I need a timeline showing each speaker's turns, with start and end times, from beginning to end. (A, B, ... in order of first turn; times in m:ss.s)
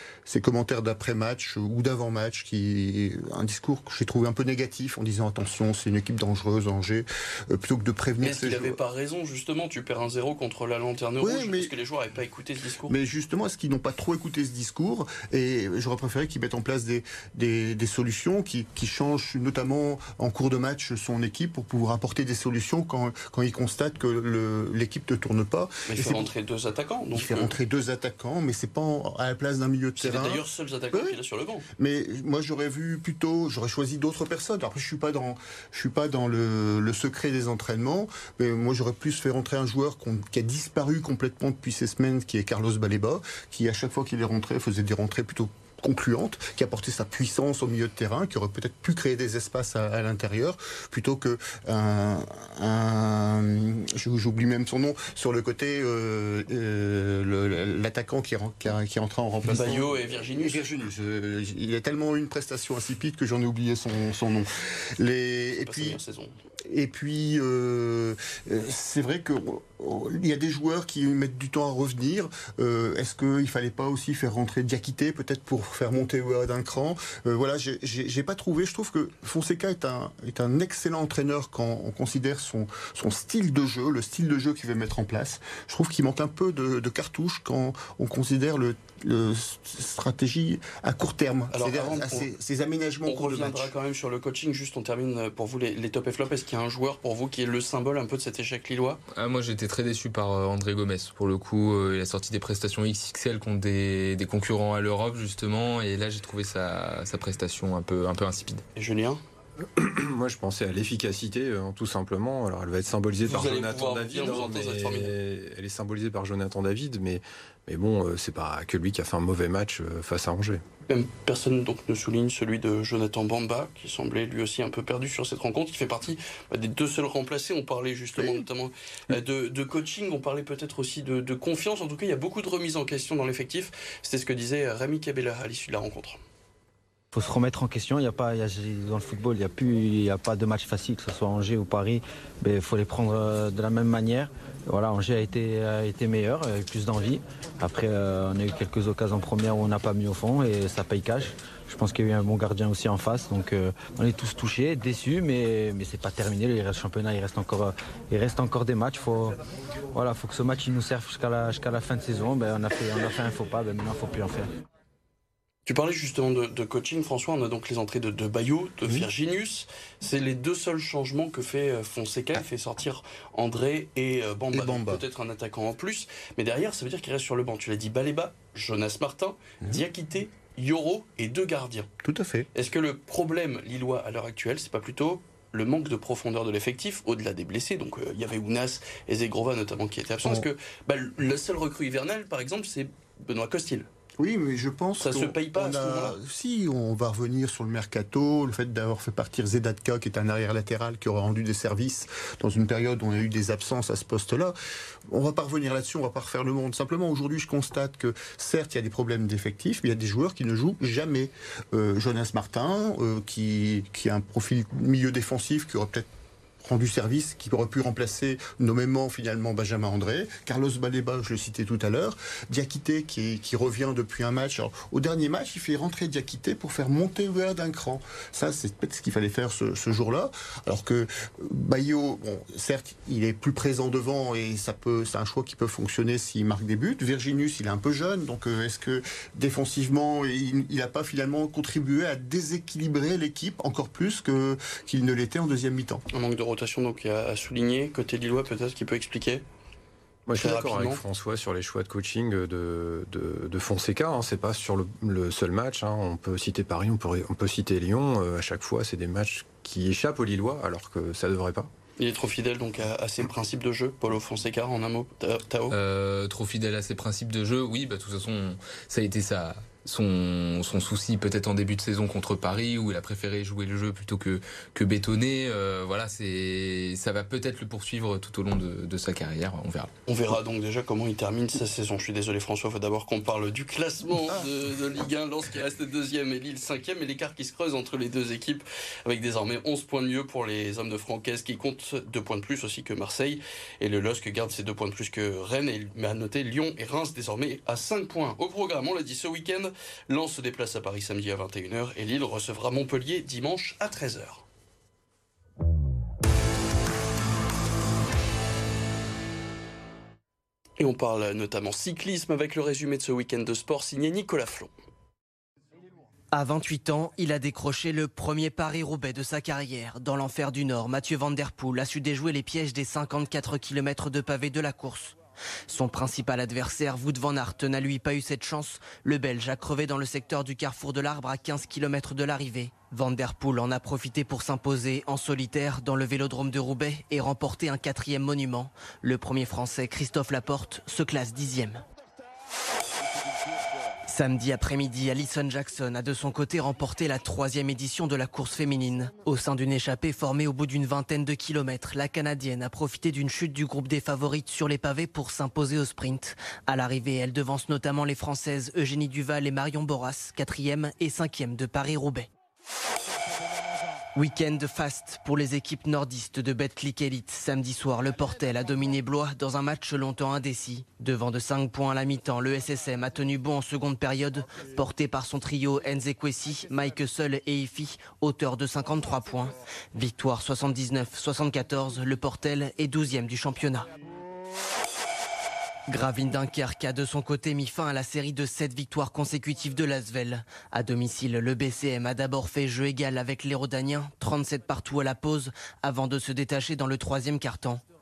0:00.2-0:08.8 A
0:08.2-0:12.9 B
0:11.2-0:11.7 A
0:12.9-0:26.3 A
0:25.9-0:27.6 B
0:27.1-0:31.2 A
0:30.0-0:31.6 B
0:31.8-1:06.0 A
0:59.5-1:00.7 B
1:05.6-1:06.3 B
1:06.7-1:33.7 A
1:31.5-1:32.3 B
1:33.1-1:39.0 B
1:39.1-1:48.6 C
1:48.8-1:49.2 B
1:49.6-2:00.6 D
1:53.2-1:55.1 B
2:00.9-2:16.2 B
2:08.2-2:08.4 A
2:17.1-2:39.4 E
2:39.9-2:44.5 E
2:45.6-3:01.9 B
2:54.5-2:55.0 A
3:02.0-3:02.5 A
3:02.5-3:13.9 B
3:14.2-3:24.5 A
3:15.0-3:16.2 B
3:25.1-3:36.1 A
3:36.6-4:06.0 A
4:06.1-4:09.4 B
4:10.2-4:21.7 D
4:10.3-4:11.0 B
4:22.0-4:25.8 B
4:25.7-4:39.9 C
4:40.1-5:04.4 B
5:10.8-5:14.7 B
5:16.3-5:25.2 F
5:25.7-5:41.8 F
5:44.1-6:02.3 F
6:04.1-6:23.9 F
6:25.9-6:37.8 F